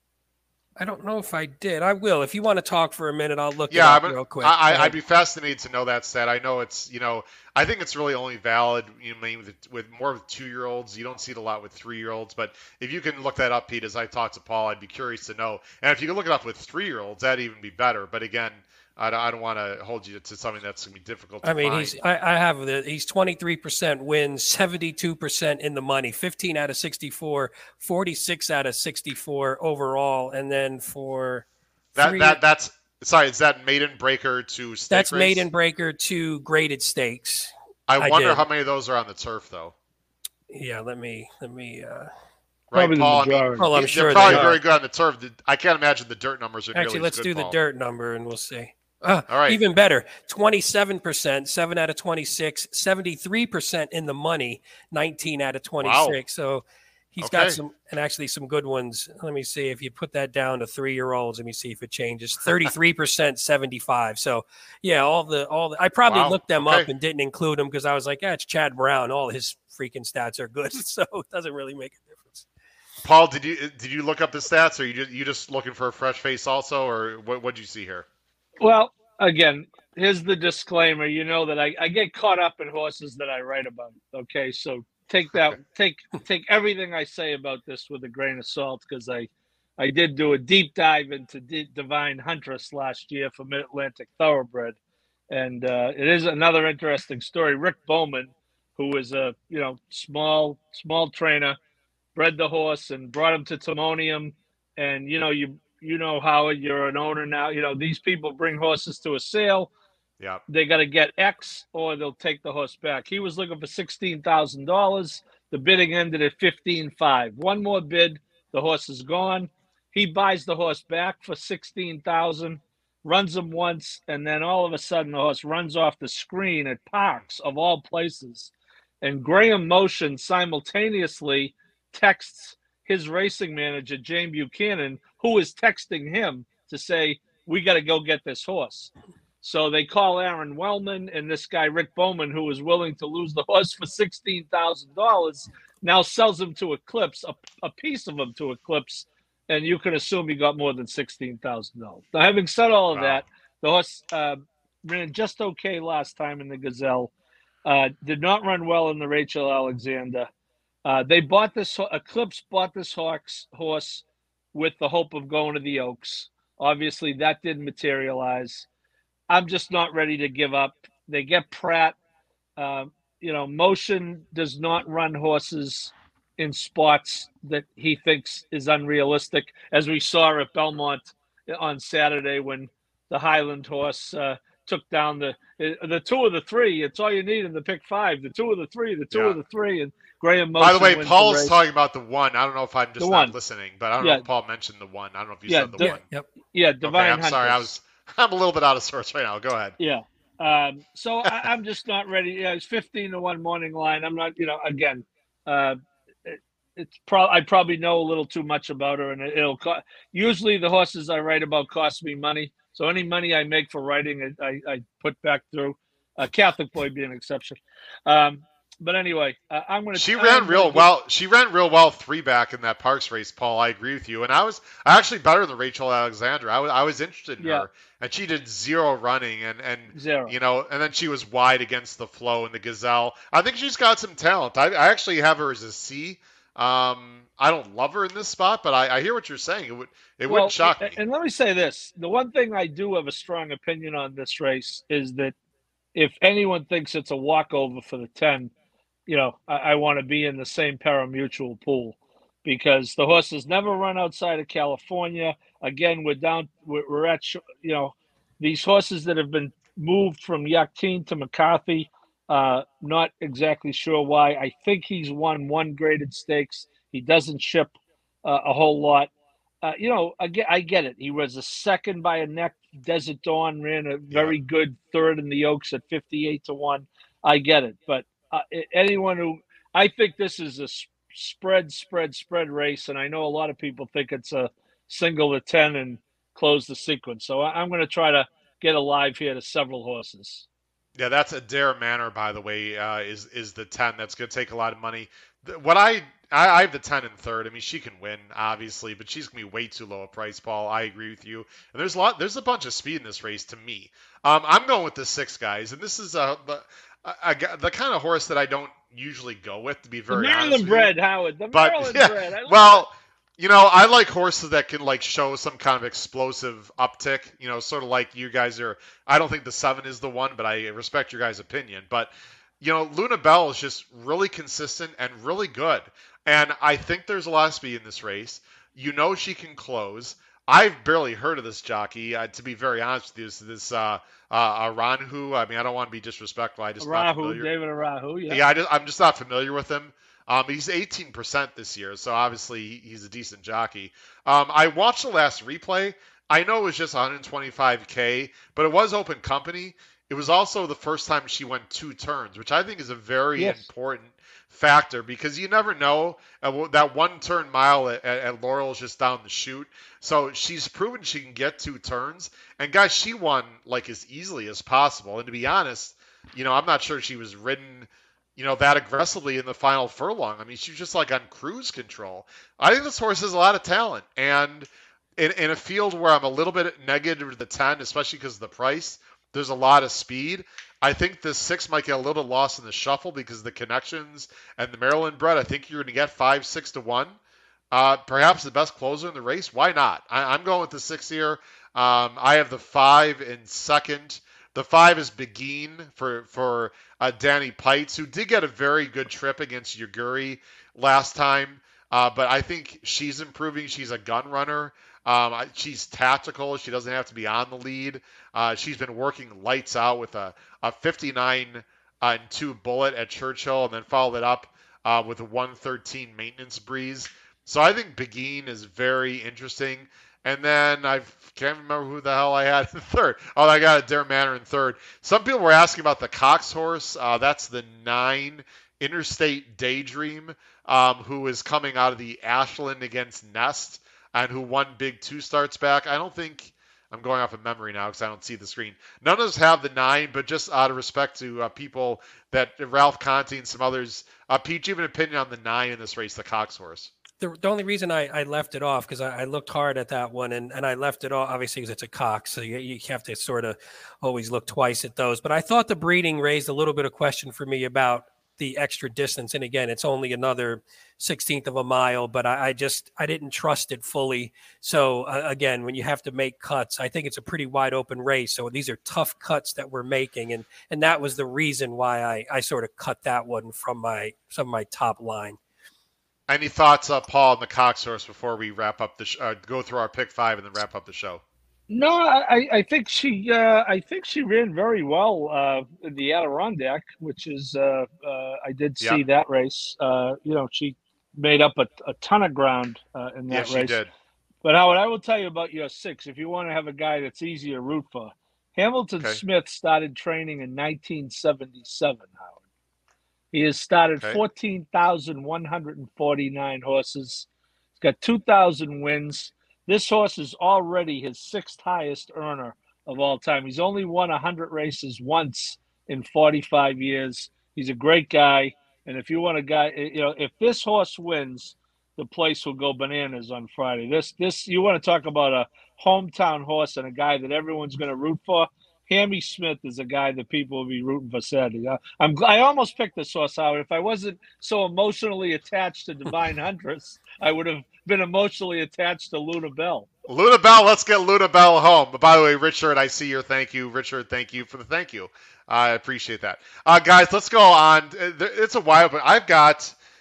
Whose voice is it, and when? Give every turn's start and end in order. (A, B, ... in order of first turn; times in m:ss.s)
0:00.8-0:05.0 A
0:03.7-0:22.0 B
0:21.4-0:31.5 A
0:32.0-0:35.4 B
0:32.0-0:32.4 A
0:34.9-0:38.4 A
0:37.9-0:39.7 B
0:40.5-0:42.1 A
0:42.7-0:47.6 B
0:42.7-0:44.5 C
0:43.6-0:44.6 A
0:46.7-1:12.5 A
0:49.3-0:49.6 B
0:55.8-0:56.2 B
0:57.2-0:57.6 B
1:06.1-1:06.9 B
1:13.0-1:18.1 B
1:18.6-1:34.8 C
1:35.3-1:41.6 C
1:42.2-1:49.7 C
1:50.5-2:18.9 C
2:19.4-2:37.1 C
2:32.9-2:33.2 B
2:37.6-2:40.3 C
2:40.8-2:48.7 C
2:49.3-2:52.0 C
2:52.6-3:11.6 C
3:09.1-3:09.4 B
3:10.6-3:16.0 B
3:13.0-3:13.4 C
3:14.0-3:14.2 C
3:15.5-3:15.9 C
3:15.8-3:16.3 A
3:16.5-3:17.7 C
3:16.8-3:19.8 B
3:19.8-3:40.9 C
3:39.9-4:01.0 B
3:47.4-3:47.7 C
3:49.9-3:50.4 C
4:00.3-4:05.4 C
4:06.0-4:08.5 C
4:09.1-4:27.7 C
4:28.2-4:29.1 C
4:29.6-4:50.5 C
4:34.1-4:34.4 B
4:51.0-5:11.0 B
5:10.1-5:12.8 C
5:11.5-5:37.5 B
5:36.8-5:38.4 C
5:38.3-6:27.2 B
6:27.7-7:26.9 B
7:27.2-7:55.4 A
7:56.3-8:01.2 B
8:01.7-8:13.8 C
8:13.3-8:13.9 B
8:14.4-8:22.4 C
8:23.3-8:27.3 C
8:27.8-8:59.9 C
9:00.1-9:09.8 B